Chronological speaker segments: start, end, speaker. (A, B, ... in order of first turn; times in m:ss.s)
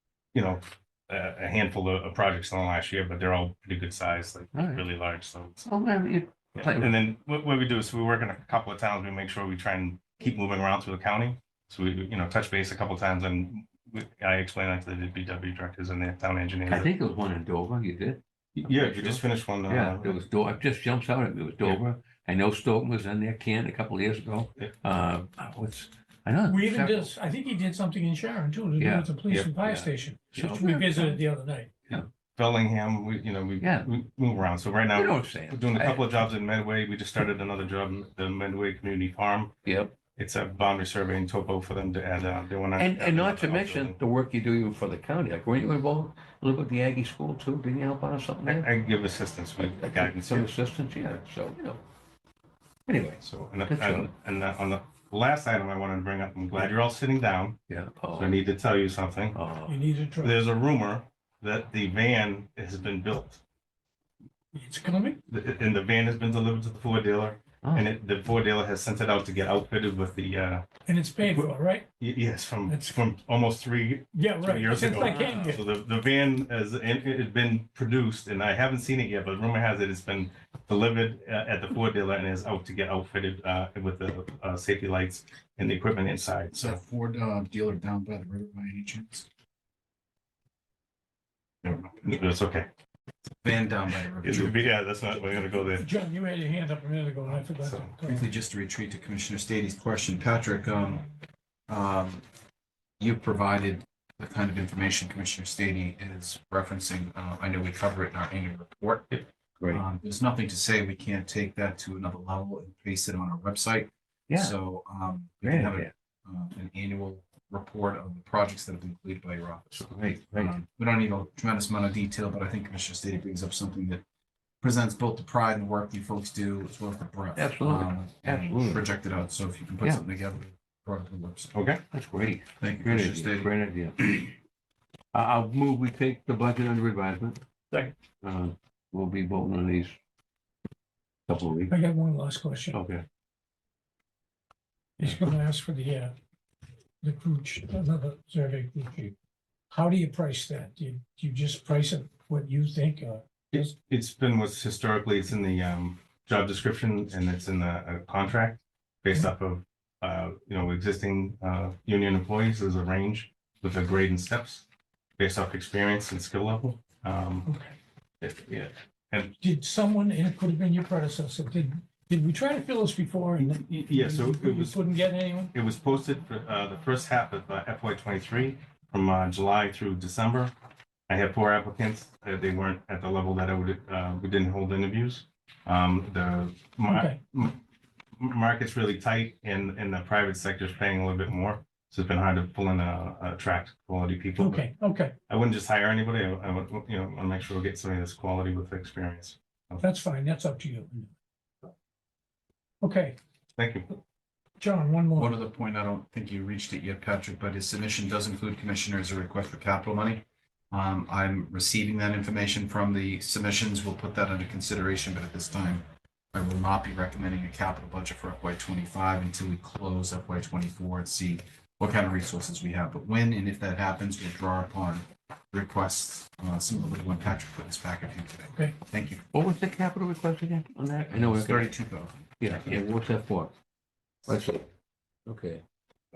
0:00.3-0:05.7 A
0:04.5-0:04.9 B
0:05.6-0:06.9 B
0:06.6-0:16.9 A
0:16.7-0:27.1 B
0:18.6-0:20.2 A
0:26.4-0:31.8 C
0:28.8-0:31.2 B
0:31.9-0:39.5 A
0:33.6-0:33.9 B
0:34.9-0:36.2 B
0:39.7-0:40.0 B
0:40.2-0:44.0 A
0:42.8-0:48.7 B
0:48.5-0:50.5 A
0:49.6-0:51.8 B
0:52.9-0:54.1 B
0:53.2-0:57.6 A
0:57.7-0:58.4 B
0:58.2-0:59.4 A
0:59.3-0:59.8 B
0:59.7-1:00.5 C
1:00.2-1:03.4 A
1:04.5-1:05.2 C
1:05.3-1:10.6 A
1:07.6-1:07.9 B
1:10.8-1:11.9 C
1:11.2-1:26.8 A
1:12.7-1:13.0 C
1:14.1-1:15.7 C
1:26.5-1:29.3 D
1:31.6-1:32.7 A
1:33.4-1:34.6 D
1:34.2-1:35.8 A
1:35.7-1:38.3 C
1:37.3-1:37.9 A
1:38.0-1:41.1 D
1:41.7-1:42.2 D
1:43.0-1:49.1 D
1:49.6-1:49.8 B
1:49.7-2:04.0 D
1:54.3-1:54.6 B
1:55.4-1:55.9 B
1:59.7-2:00.5 B
2:04.6-2:11.5 D
2:07.4-2:08.8 B
2:11.5-2:11.8 A
2:11.9-2:14.3 B
2:12.6-2:13.5 D
2:15.1-2:17.4 B
2:18.2-2:19.9 B
2:21.3-2:21.7 B
2:21.7-2:22.8 C
2:22.7-2:23.0 B
2:25.0-2:26.1 C
2:27.0-2:29.1 C
2:29.7-2:33.7 C
2:33.5-2:44.7 A
2:45.2-2:47.5 A
2:47.4-2:47.8 C
2:48.2-2:49.4 A
2:49.4-2:55.5 C
2:53.4-2:54.8 A
2:55.5-3:00.5 A
3:01.1-3:07.6 A
3:06.8-3:07.2 C
3:08.2-3:14.6 A
3:14.4-3:15.1 C
3:15.3-3:19.8 A
3:19.8-3:21.1 C
3:22.8-3:23.2 C
3:23.6-3:23.9 A
3:24.6-3:25.4 C
3:25.2-3:49.2 D
3:48.5-3:48.7 C
3:49.3-3:51.7 B
3:51.1-3:52.8 D
3:52.4-3:53.5 B
3:54.2-3:54.7 B
3:55.2-3:55.6 B